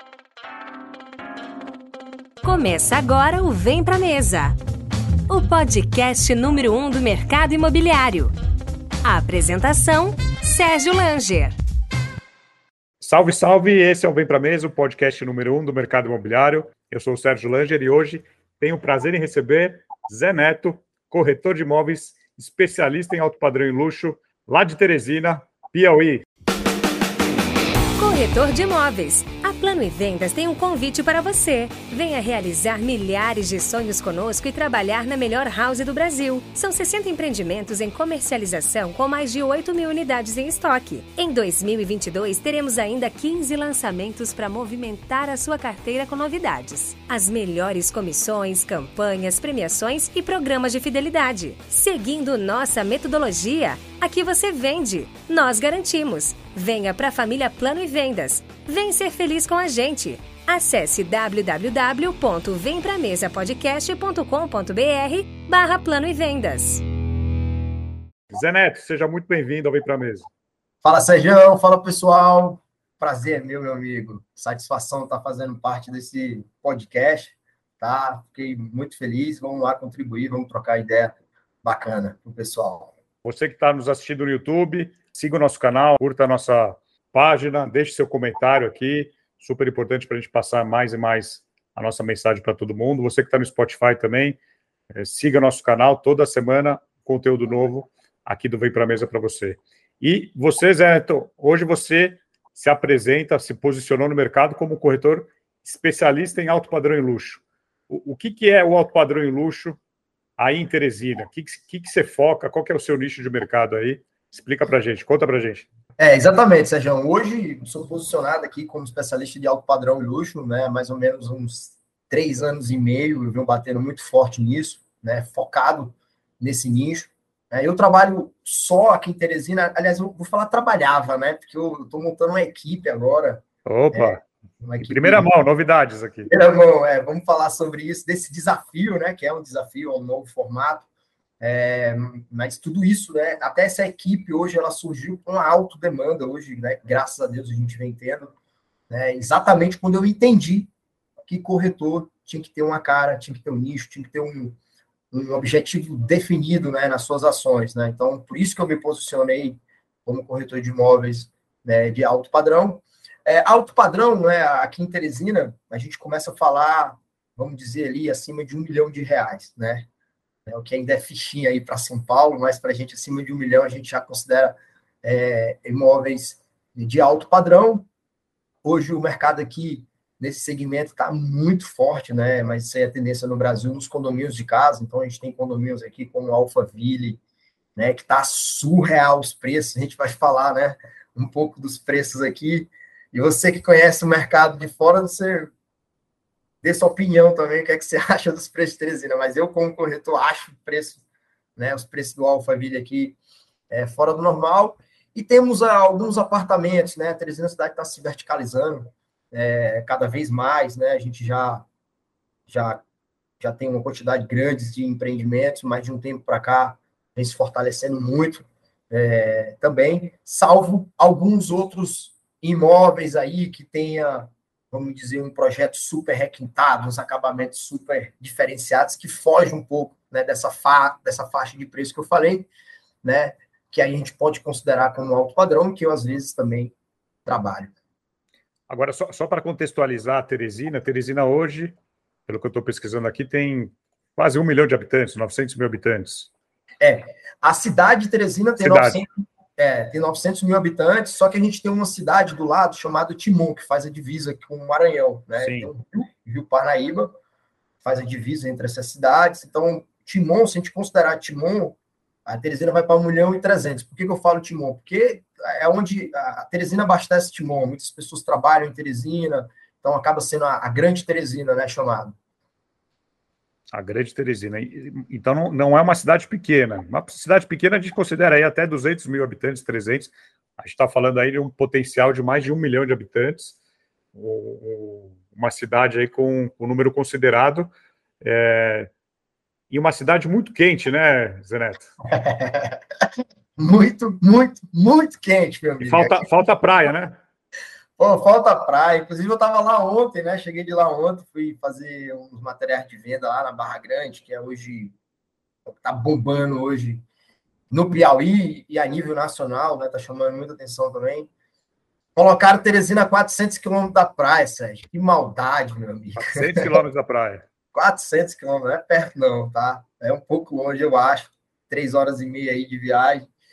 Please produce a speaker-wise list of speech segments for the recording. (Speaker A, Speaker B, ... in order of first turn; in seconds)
Speaker A: 2.4-4.6, 5.3-8.3, 9.0-11.6, 28.0-66.8
Speaker B: 13.0-26.2, 68.3-70.3, 83.2-94.4, 94.9-109.8, 110.4-115.7, 133.7-134.2, 134.8-136.3, 238.7-241.8, 242.3-246.3, 248.6-249.0, 255.4-255.7, 273.7-283.6, 284.1-287.7, 288.2-288.9, 289.7-291.9, 295.8-297.2, 316.2-317.4
Speaker C: 70.8-82.9, 116.0-135.3, 136.3-140.8, 141.4-148.3, 148.9-150.7, 151.2-154.6, 155.1-169.9, 170.5-177.9, 178.6-187.2, 187.8-195.5, 196.6-201.0, 201.6-203.2, 203.7-211.7, 212.5-212.8, 213.4-232.5, 233.0-236.7, 237.2-237.7, 246.8-257.1, 257.8-272.1, 292.1-292.8, 293.6-296.3, 298.0-304.9, 305.7-307.0, 307.7-311.3, 312.2-316.8, 317.7-323.3